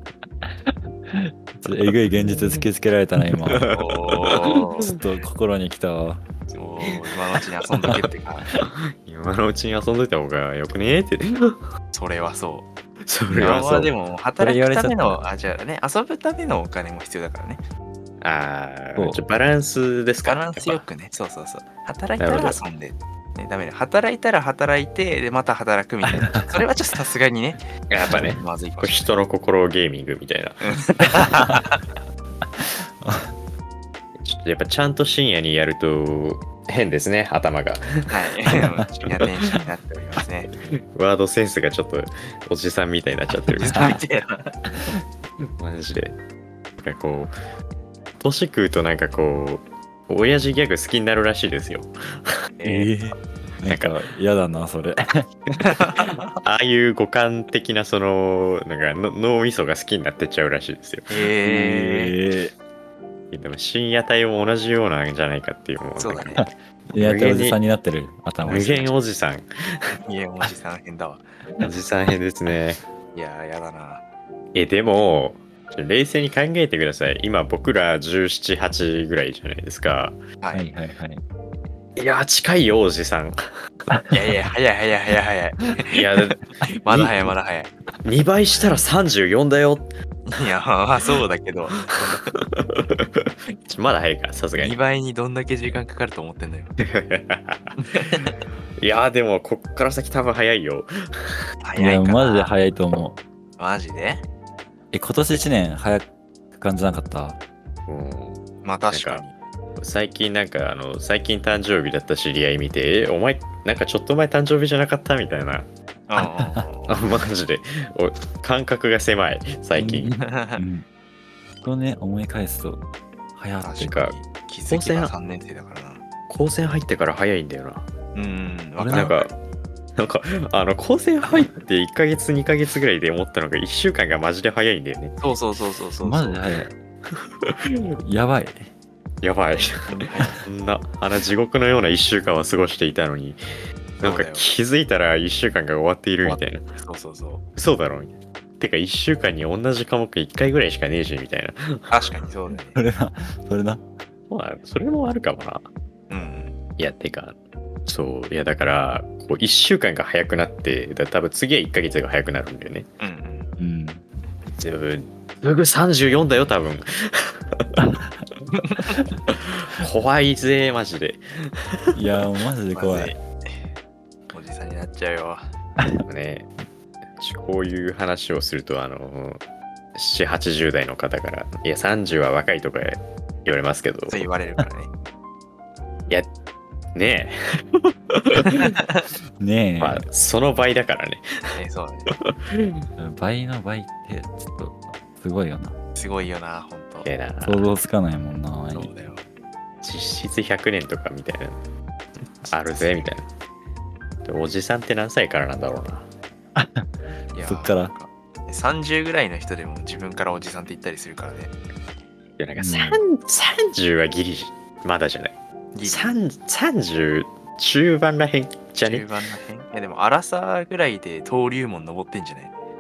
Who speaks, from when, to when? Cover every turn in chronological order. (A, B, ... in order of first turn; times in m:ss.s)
0:00.4-0:03.7 A
0:02.3-0:02.6 B
0:03.4-0:04.6 B
0:03.7-0:04.9 C
0:04.8-0:06.2 A
0:06.6-0:08.5 C
0:08.6-0:11.6 B
0:11.9-0:12.7 C
0:13.0-0:14.0 B
0:13.3-0:17.6 C
0:14.4-0:15.2 A
0:18.2-0:20.8 B
0:19.0-0:19.2 A
0:20.2-0:29.1 C
0:22.2-0:22.6 B
0:26.1-0:26.5 A
0:27.9-0:30.7 B
0:30.6-0:31.8 C
0:32.6-0:33.3 A
0:34.2-0:38.1 B
0:38.1-0:40.5 C
0:40.9-0:44.0 B
0:43.5-0:44.6 C
0:43.7-0:44.0 A
0:45.6-0:46.2 B
0:46.8-0:47.3 B
0:48.2-0:52.4 B
0:52.6-0:52.9 C
0:52.6-0:55.3 A
0:53.6-0:54.0 B
0:55.7-0:56.2 C
0:56.4-1:01.1 B
1:01.1-1:02.2 C
1:01.4-1:02.5 A
1:03.3-1:07.6 B
1:06.0-1:06.4 C
1:06.9-1:08.9 A
1:08.4-1:09.5 B
1:10.0-1:11.3 C
1:11.6-1:12.8 B
1:13.2-1:14.0 C
1:14.5-1:20.2 B
1:20.4-1:20.7 C
1:20.5-1:21.2 A
1:22.0-1:23.4 B
1:24.1-1:26.0 C
1:25.9-1:27.1 B
1:26.8-1:27.7 C
1:28.0-1:29.9 B
1:30.3-1:32.1 C
1:31.9-1:34.8 B
1:34.6-1:36.7 C
1:36.8-1:38.3 B
1:37.8-1:38.4 C
1:38.8-1:41.4 B
1:41.6-1:42.5 C
1:41.8-1:43.2 A
1:43.6-1:44.2 C
1:44.9-1:47.4 A
1:47.9-1:49.2 B
1:48.6-1:49.3 C
1:49.8-1:55.7 B
1:56.1-1:56.9 C
1:56.2-1:56.6 A
1:56.9-2:00.1 B
1:59.8-2:00.9 A
2:00.1-2:00.6 C
2:01.6-2:02.8 A
2:03.4-2:04.1 A
2:03.6-2:06.0 C
2:04.7-2:05.1 B
2:06.3-2:07.9 B
2:08.2-2:09.3 C
2:08.8-2:09.2 A
2:08.9-2:09.3 B
2:10.0-2:15.2 B
2:15.2-2:16.4 C
2:16.0-2:16.7 A
2:17.4-2:17.8 B
2:18.0-2:18.7 A
2:19.2-2:23.4 B
2:19.9-2:20.4 C
2:24.0-2:24.5 C
2:24.0-2:26.7 B
2:26.2-2:27.4 C
2:27.6-2:32.1 B
2:31.9-2:32.8 C
2:32.7-2:33.8 A
2:34.3-2:35.7 B
2:36.1-2:36.6 C
2:36.8-2:42.9 B
2:43.0-2:43.5 C
2:43.6-2:44.0 A
2:44.6-2:47.8 B
2:48.6-2:49.0 C
2:49.3-2:51.9 B
2:51.9-2:53.1 A
2:52.8-2:53.5 C
2:54.3-2:55.4 C
2:56.1-2:56.5 B
2:57.2-2:59.4 B
3:00.0-3:04.3 B
3:04.1-3:04.9 C
3:07.0-3:08.8 B
3:09.4-3:10.1 A
3:09.8-3:11.5 B
3:11.6-3:12.1 C
3:12.2-3:12.7 B
3:13.0-3:15.8 A
3:16.0-3:17.1 C
3:17.0-3:17.7 B
3:17.4-3:18.9 A
3:18.7-3:19.2 C
3:19.8-3:21.6 B
3:22.4-3:23.3 B
3:24.2-3:26.1 B
3:26.6-3:26.9 A
3:27.3-3:31.5 C
3:27.5-3:27.9 A
3:32.4-3:39.1 B
3:32.6-3:33.0 A
3:35.7-3:36.2 C
3:38.8-3:42.5 C